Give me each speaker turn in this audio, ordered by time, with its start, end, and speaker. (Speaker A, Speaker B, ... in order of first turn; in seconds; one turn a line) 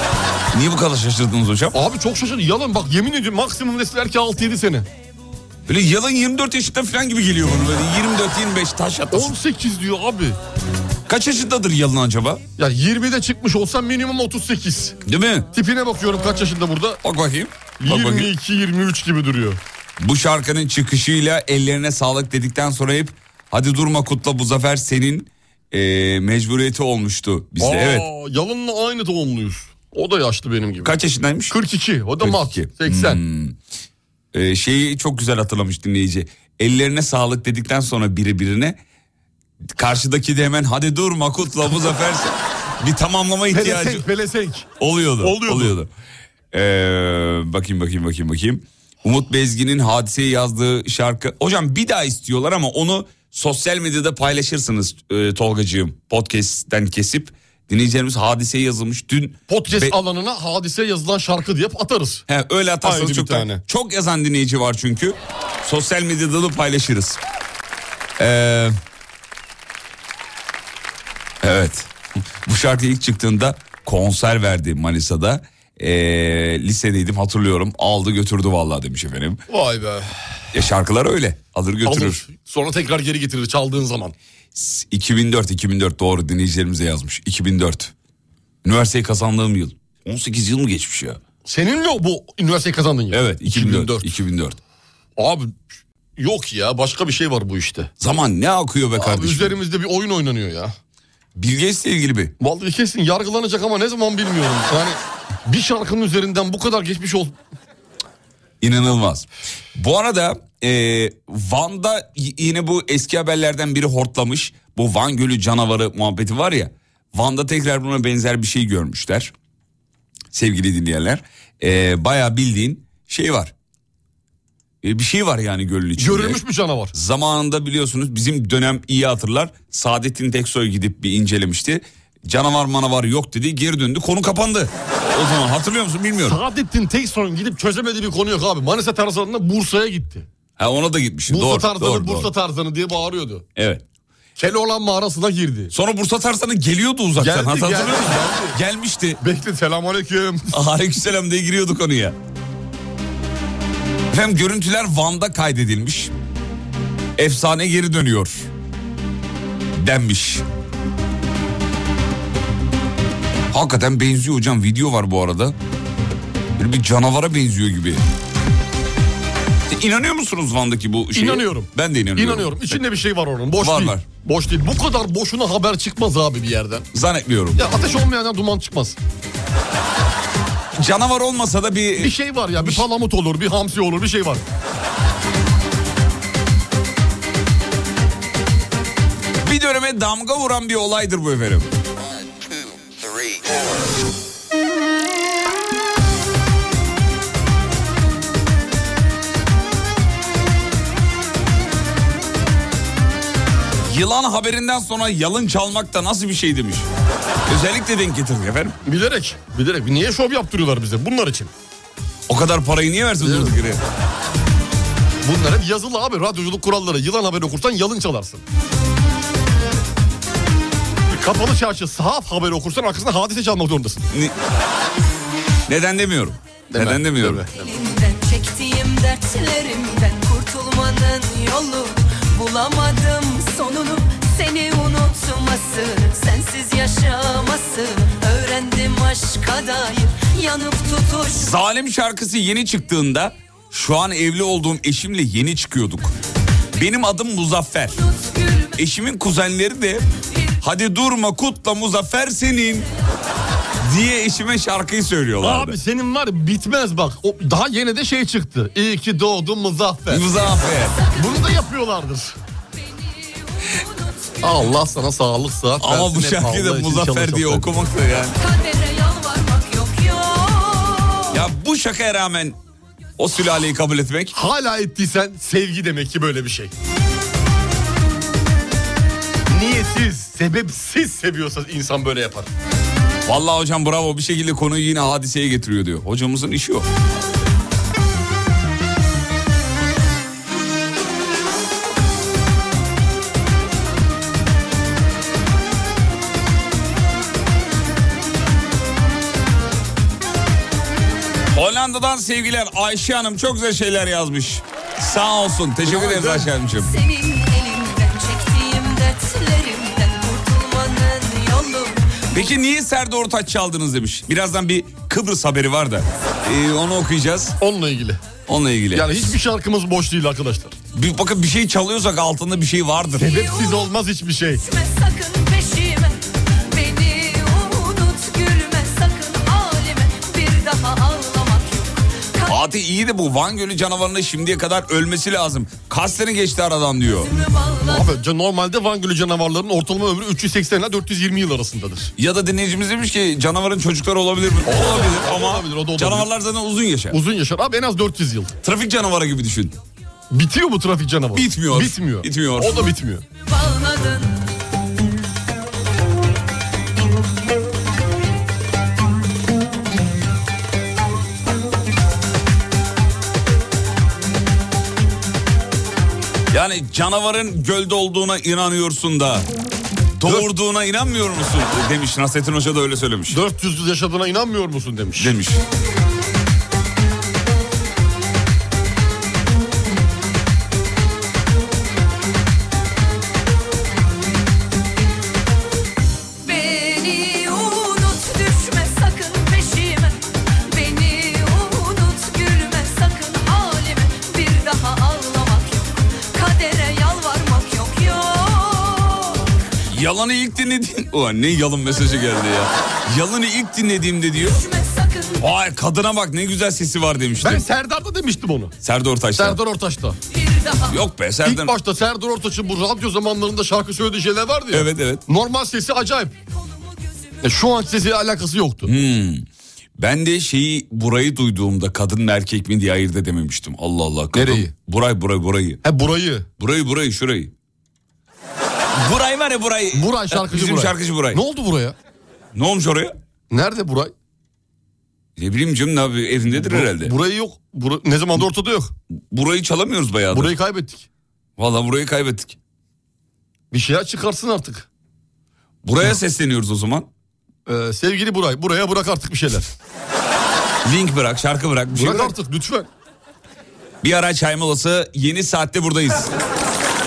Speaker A: 0.5-1.8
Speaker B: 1.7-4.9
Speaker A: 5.7-9.3
Speaker B: 9.1-10.4
Speaker A: 11.1-12.4
Speaker B: 12.6-15.0
Speaker A: 15.1-15.5
Speaker B: 15.5-17.0
Speaker A: 17.0-18.3
Speaker B: 17.8-19.6
Speaker A: 20.0-28.1
Speaker B: 27.6-31.0
Speaker A: 30.8-31.6
Speaker B: 31.5-33.2
Speaker A: 32.2-33.5
Speaker A: 34.3-38.8
Speaker A: 39.8-44.0
Speaker B: 43.5-44.7
Speaker A: 44.8-45.9
Speaker B: 45.2-45.8
Speaker A: 46.5-60.0
Speaker B: 59.5-62.2
Speaker A: 62.3-67.2
Speaker B: 62.8-63.6
Speaker A: 68.2-68.8
Speaker A: 71.4-71.9
Speaker A: 72.5-79.4
Speaker B: 79.5-80.1
Speaker A: 80.5-82.2
Speaker B: 81.8-84.2
Speaker A: 84.5-87.9
Speaker A: 88.6-91.2
Speaker B: 91.5-94.1
Speaker A: 93.1-94.6
Speaker B: 95.2-97.9
Speaker A: 98.0-99.6
Speaker B: 99.0-100.8
Speaker A: 101.4-102.3
Speaker B: 102.4-107.3
Speaker A: 108.6-119.3
Speaker A: 120.3-123.5
Speaker A: 124.8-126.4
Speaker B: 126.0-126.9
Speaker A: 126.9-136.4
Speaker B: 136.3-140.3
Speaker A: 140.6-142.3
Speaker B: 141.3-143.4
Speaker A: 143.6-143.8
Speaker B: 144.4-145.7
Speaker A: 145.7-149.2
Speaker B: 147.2-148.6
Speaker B: 149.2-150.6
Speaker A: 150.5-152.2
Speaker A: 154.1-156.1
Speaker A: 157.2-158.5
Speaker A: 159.8-160.4
Speaker A: 163.5-165.6
Speaker A: 166.6-168.0
Speaker A: 169.7-172.8
Speaker B: 171.1-176.9
Speaker A: 173.6-174.0
Speaker A: 176.9-177.7
Speaker B: 177.6-179.0
Speaker A: 180.8-182.8
Speaker B: 182.0-184.4
Speaker A: 189.4-191.7
Speaker A: 203.9-206.9
Speaker A: 207.4-208.8
Speaker B: 208.8-211.5
Speaker A: 212.3-213.8
Speaker B: 213.2-213.6
Speaker B: 215.2-218.4
Speaker B: 221.1-224.1
Speaker A: 225.7-227.4
Speaker B: 226.7-227.5
Speaker C: 227.5-230.6
Speaker C: 231.2-231.8
Speaker C: 232.4-232.6
Speaker C: 234.2-235.3
Speaker C: 235.8-236.3
Speaker C: 236.9-237.1
Speaker C: 240.2-240.7
Speaker A: 241.4-246.1
Speaker A: 246.7-248.0
Speaker A: 248.8-250.1
Speaker A: 250.6-252.9
Speaker A: 253.8-255.8
Speaker B: 255.4-260.3
Speaker A: 260.1-261.0
Speaker B: 261.1-262.4
Speaker B: 264.4-267.9
Speaker A: 265.8-268.4
Speaker C: 268.4-271.1
Speaker A: 271.3-272.6
Speaker A: 273.2-274.3
Speaker B: 274.3-276.7
Speaker B: 279.5-282.5
Speaker A: 283.3-286.9
Speaker A: 301.5-306.9
Speaker B: 305.8-306.5
Speaker C: 307.0-308.5
Speaker C: 310.2-310.8
Speaker A: 312.3-317.6
Speaker B: 317.6-318.2
Speaker A: 318.5-319.3
Speaker B: 318.9-320.8
Speaker A: 320.9-323.4
Speaker B: 323.2-324.6
Speaker C: 324.7-325.9
Speaker C: 326.7-328.6
Speaker C: 330.1-330.9
Speaker A: 332.5-337.3
Speaker B: 337.8-342.1
Speaker A: 342.2-347.2
Speaker B: 344.6-346.3
Speaker B: 347.1-348.5
Speaker A: 348.6-349.8
Speaker B: 350.3-353.2
Speaker A: 351.3-352.9
Speaker A: 366.5-369.5
Speaker A: 370.2-373.4
Speaker B: 370.2-370.5
Speaker B: 373.3-375.4
Speaker A: 375.2-375.6
Speaker C: 387.8-388.6
Speaker C: 394.2-394.6
Speaker A: 399.9-404.6
Speaker C: 404.7-405.1
Speaker A: 405.4-407.6
Speaker B: 407.4-408.8
Speaker A: 408.8-409.6
Speaker B: 409.4-410.2
Speaker A: 410.9-411.7
Speaker B: 411.4-416.3
Speaker A: 414.7-415.2
Speaker B: 417.4-418.9
Speaker A: 418.9-419.4
Speaker A: 420.0-425.8
Speaker B: 424.3-424.7
Speaker B: 425.8-426.5
Speaker A: 426.6-427.5
Speaker A: 429.0-431.4
Speaker B: 429.9-431.9
Speaker A: 432.6-433.1
Speaker B: 433.5-434.1
Speaker A: 435.4-437.1
Speaker B: 436.5-438.9
Speaker A: 439.3-440.5
Speaker B: 440.3-441.1
Speaker A: 441.6-442.6
Speaker B: 443.7-444.9
Speaker A: 445.8-447.1
Speaker B: 447.7-449.7
Speaker A: 450.9-452.3
Speaker B: 451.9-452.9
Speaker A: 454.0-456.3